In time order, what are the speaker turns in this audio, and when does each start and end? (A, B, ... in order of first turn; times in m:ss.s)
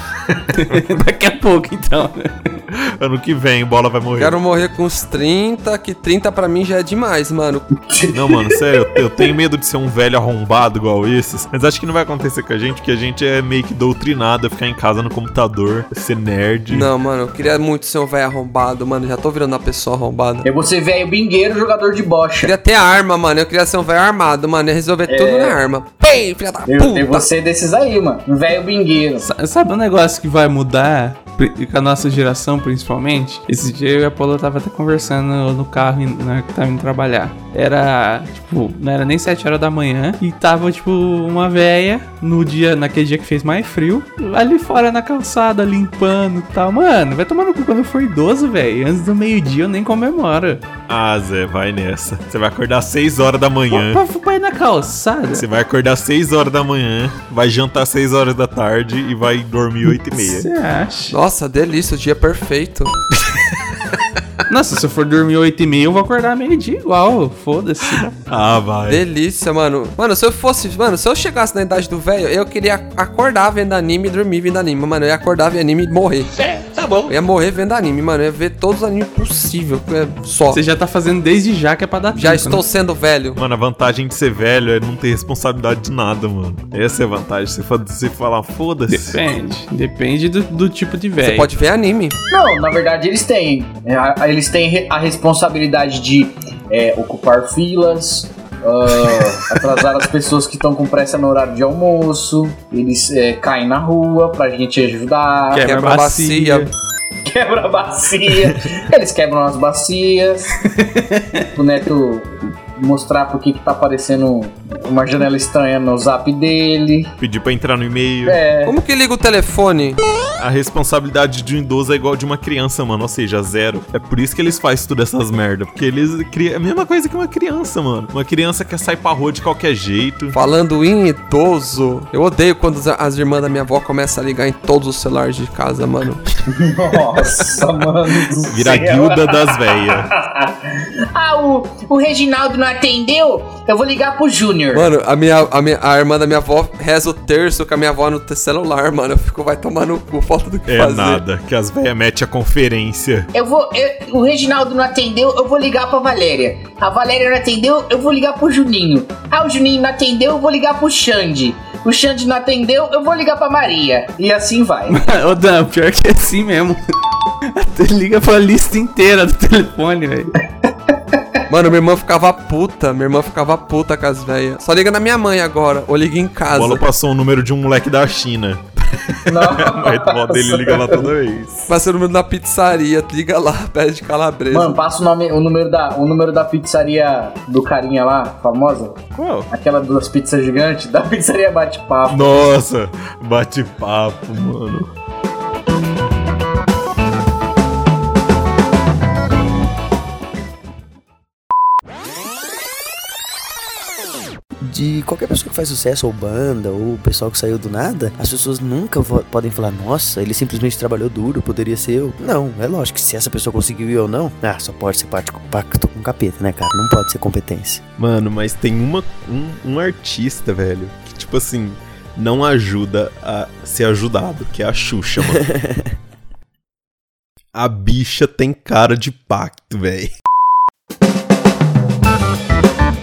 0:00.5-0:02.6 A
0:02.7-0:04.4 B
0:04.2-0:07.7 C
0:07.9-0:09.3 D
0:08.1-0:16.9 B
0:16.7-0:20.5 C
0:20.4-0:22.5 D
0:22.4-0:27.3 C
0:25.1-0:25.6 D
0:26.7-0:29.3 D
0:29.2-0:50.6 A
0:50.9-0:54.0 B
0:53.7-0:55.4 A
0:55.3-1:00.5 B
0:59.9-1:01.2 A
1:01.1-1:02.9 C
1:04.5-1:08.1 A
1:08.0-1:09.0 B
1:08.9-1:16.3 C
1:17.1-1:20.6 C
1:20.5-1:22.6 A
1:22.1-1:23.4 C
1:23.4-1:29.2 B
1:28.9-1:31.5 A
1:31.2-1:32.2 C
1:32.3-1:45.6 D
1:45.5-1:46.7 A
1:45.6-1:46.7 C
1:47.2-1:50.9 D
1:51.1-1:51.4 A
1:51.6-1:57.1 D
1:57.2-1:58.4 B
1:58.2-1:58.8 D
1:58.6-2:00.0 C
2:00.4-2:10.4 B
2:10.3-2:16.2 C
2:16.5-2:24.9 D
2:18.5-2:20.1 B
2:24.7-2:31.2 C
2:30.7-2:33.3 B
2:33.3-2:45.0 D
2:44.9-2:46.9 A
2:47.5-2:50.3 A
2:51.5-2:56.8 C
2:56.5-3:01.7 B
2:59.3-3:01.1 D
3:01.7-3:04.8 C
3:04.5-3:12.4 D
3:09.2-3:09.5 B
3:12.1-3:14.9 B
3:24.6-3:37.8 E
3:38.0-3:45.5 B
3:47.5-3:50.1 B